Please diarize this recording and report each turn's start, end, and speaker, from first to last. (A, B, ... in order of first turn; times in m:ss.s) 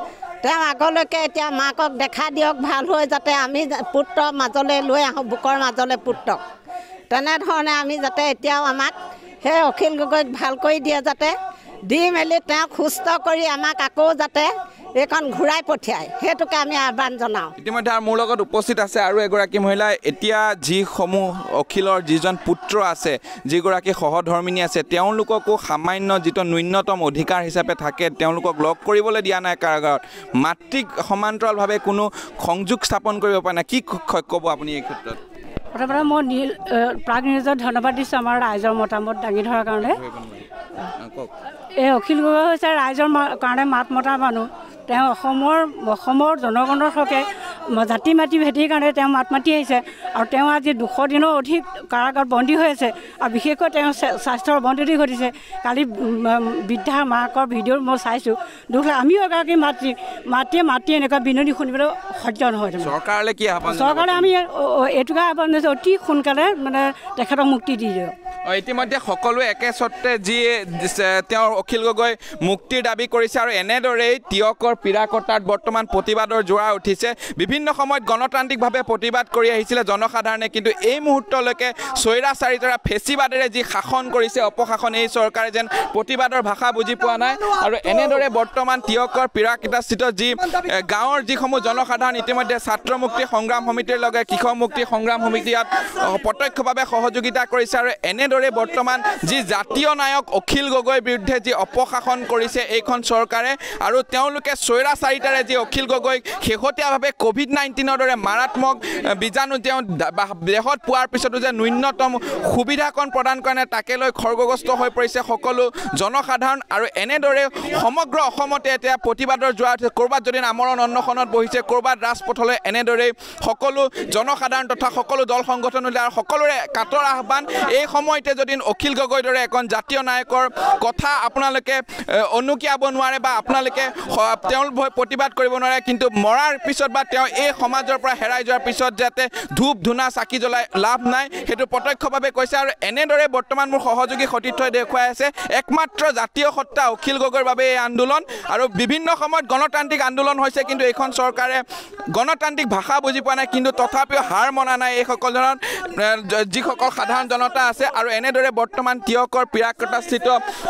0:00.4-0:06.4 A
0:07.1-0:11.4 A
0:11.9-0:17.5 A
0:17.6-0:35.2 B
0:35.8-0:40.0 C
0:39.8-0:40.4 B
0:41.0-0:41.3 B
0:41.8-1:02.9 C
1:02.8-1:04.3 B
1:03.7-1:08.1 C
1:08.5-2:40.4 B